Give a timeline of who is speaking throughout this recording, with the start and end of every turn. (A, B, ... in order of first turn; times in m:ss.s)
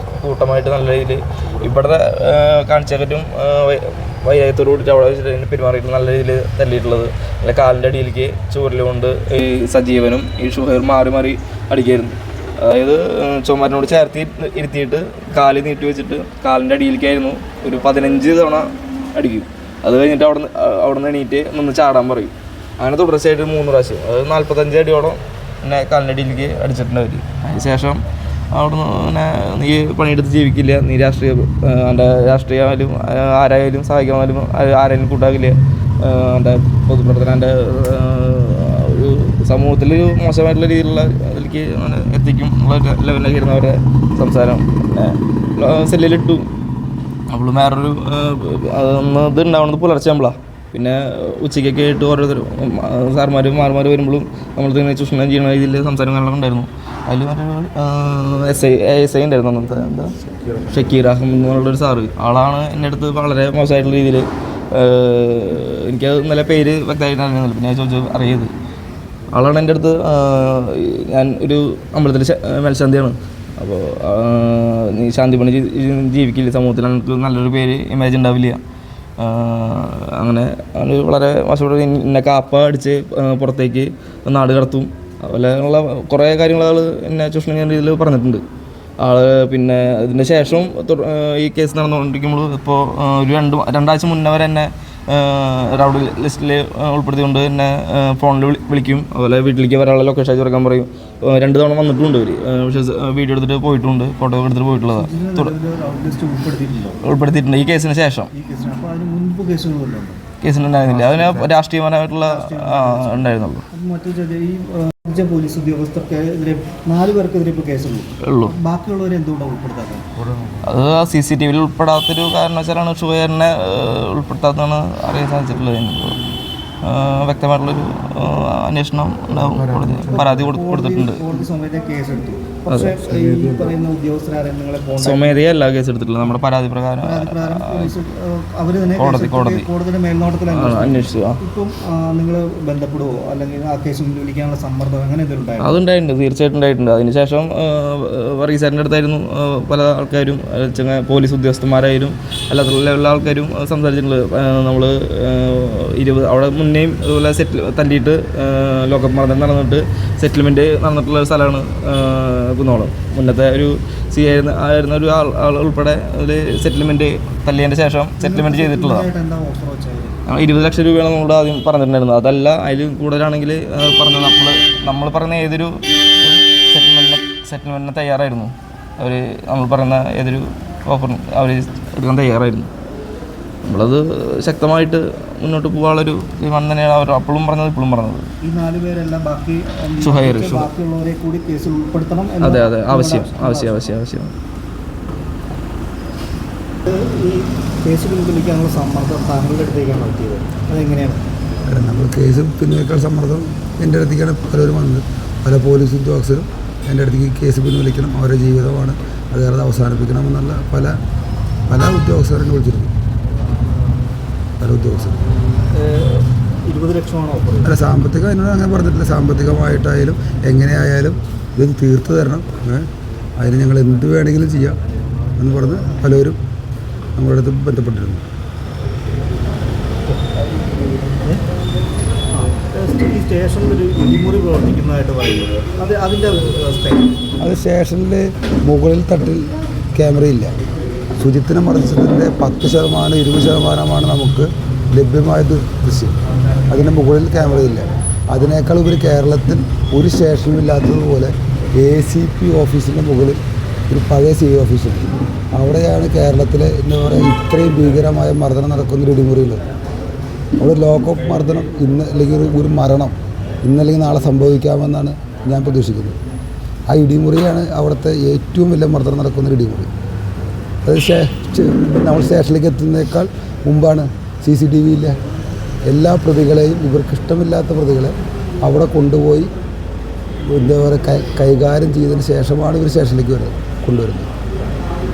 0:00.2-0:28.0 A
0:28.5-0:46.4 A
0:47.3-1:08.5 A
1:09.3-1:18.6 A
1:19.2-1:28.4 A
1:29.0-1:45.5 A
1:44.9-1:47.0 B
1:47.0-1:48.3 A
1:48.3-1:50.2 B
1:50.4-1:53.6 A
1:50.9-1:51.5 B
1:52.2-2:00.0 B
1:58.2-1:58.5 A
2:00.2-2:00.6 C
2:00.6-2:06.2 A
2:06.8-2:11.2 A
2:09.5-2:10.3 C
2:10.1-2:15.3 B
2:12.7-2:13.0 A
2:13.1-2:13.7 C
2:15.0-2:17.9 A
2:17.0-2:25.8 B
2:19.0-2:19.7 A
2:20.5-2:21.4 A
2:25.6-2:49.1 A
2:48.2-2:50.2 B
2:50.2-3:02.7 A
3:03.6-3:08.3 A
3:08.4-3:13.8 B
3:10.0-3:10.7 A
3:12.4-3:14.3 A
3:16.8-3:21.3 B
3:21.7-3:30.9 C
3:31.7-3:32.9 C
3:34.6-3:35.2 C
3:35.7-3:37.8 B
3:37.6-3:44.8 C
3:45.4-3:46.4 C
3:47.2-3:48.2 C
3:51.2-3:51.4 B
3:52.3-3:57.2 B
3:57.4-4:00.5 C
4:01.2-4:06.1 C
4:06.7-4:13.4 C
4:13.9-4:19.6 C
4:20.6-4:26.2 C
4:26.9-4:29.9 C
4:30.8-4:35.2 C
4:35.9-4:39.5 C
4:40.5-4:44.3 C